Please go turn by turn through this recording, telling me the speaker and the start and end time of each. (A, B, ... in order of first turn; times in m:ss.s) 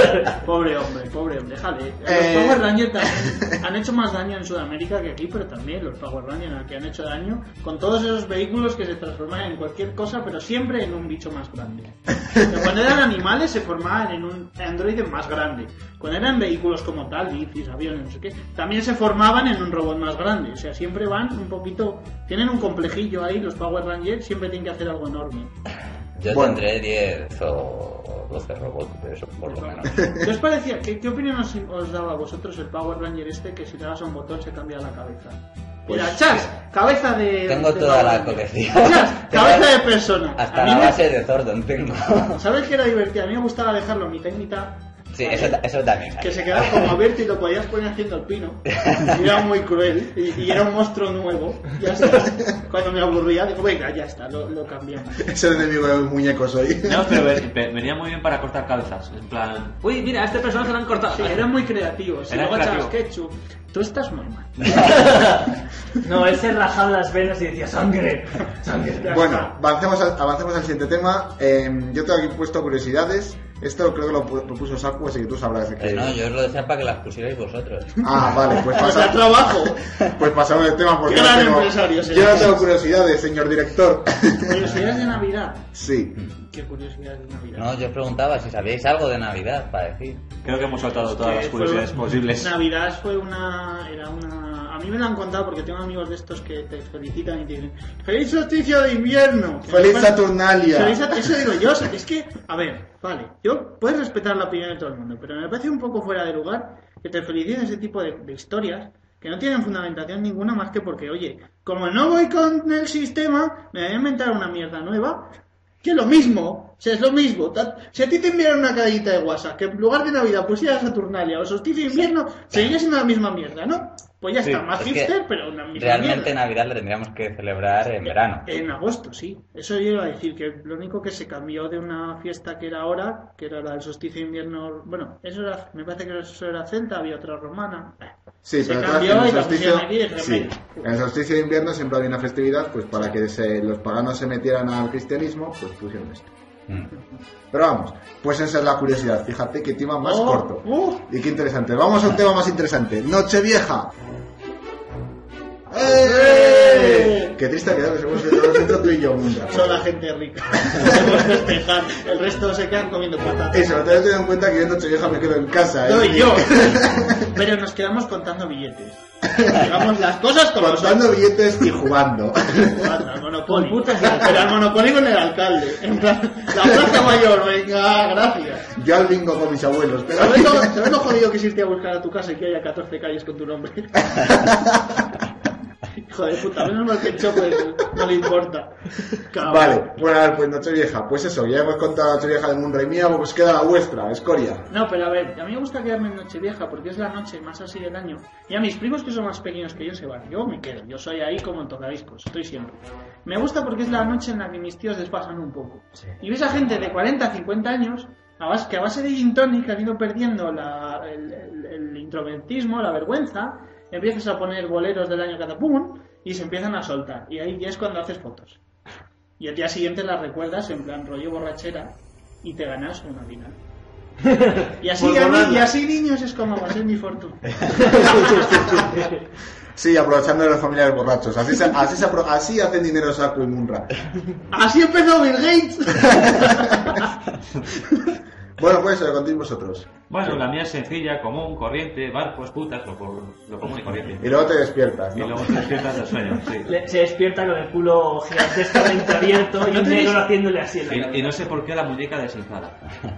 0:00.3-0:25.5 A
0:02.0-0:02.8 B
0:26.2-0:30.2 C
0:26.3-0:26.6 B
0:29.4-0:41.0 A
0:35.9-0:36.2 B
0:37.5-0:42.4 C
0:42.4-0:45.6 A
0:45.1-0:47.0 C
0:46.2-0:55.3 A
0:55.2-0:57.3 B
0:56.8-1:01.5 D
1:01.1-1:04.8 A
1:02.3-1:02.9 D
1:04.6-1:05.2 D
1:04.7-1:05.5 E
1:06.0-1:09.5 E
1:09.0-1:16.2 B
1:15.8-1:18.5 C
1:18.0-1:24.7 B
1:18.7-1:19.8 A
1:21.0-1:22.6 A
1:24.4-1:25.7 A
1:25.7-1:26.2 B
1:26.4-1:27.7 A
1:27.6-1:30.4 C
1:30.4-1:32.5 D
1:30.8-2:06.3 A
1:39.6-1:41.3 B
2:04.7-2:05.1 C
2:05.7-2:08.5 C
2:08.1-2:20.9 A
2:18.4-2:26.3 B
2:27.5-2:33.9 B
2:30.0-2:31.0 A
2:35.7-2:39.8 B
2:36.0-2:37.3 A
2:39.5-2:44.0 A
2:40.7-2:41.1 B
2:43.5-2:47.3 B
2:45.8-2:51.1 A
2:50.6-2:53.0 B
2:52.6-2:58.7 A
2:53.5-2:54.5 E
2:58.7-3:00.9 B
3:00.2-3:04.5 A
3:06.0-3:09.9 A
3:09.4-3:14.7 B
3:14.7-3:38.6 A
3:39.4-3:43.6 A
3:44.3-3:44.6 E
3:44.8-3:48.9 A
3:48.8-3:49.1 E
3:49.8-3:53.9 B
3:54.5-3:57.0 A
3:56.1-3:57.0 B
3:58.6-4:00.4 B
4:00.1-4:04.3 D
4:04.2-4:05.6 B
4:05.1-4:06.7 D
4:06.7-4:11.4 E
4:09.6-4:10.2 A
4:10.9-4:12.8 D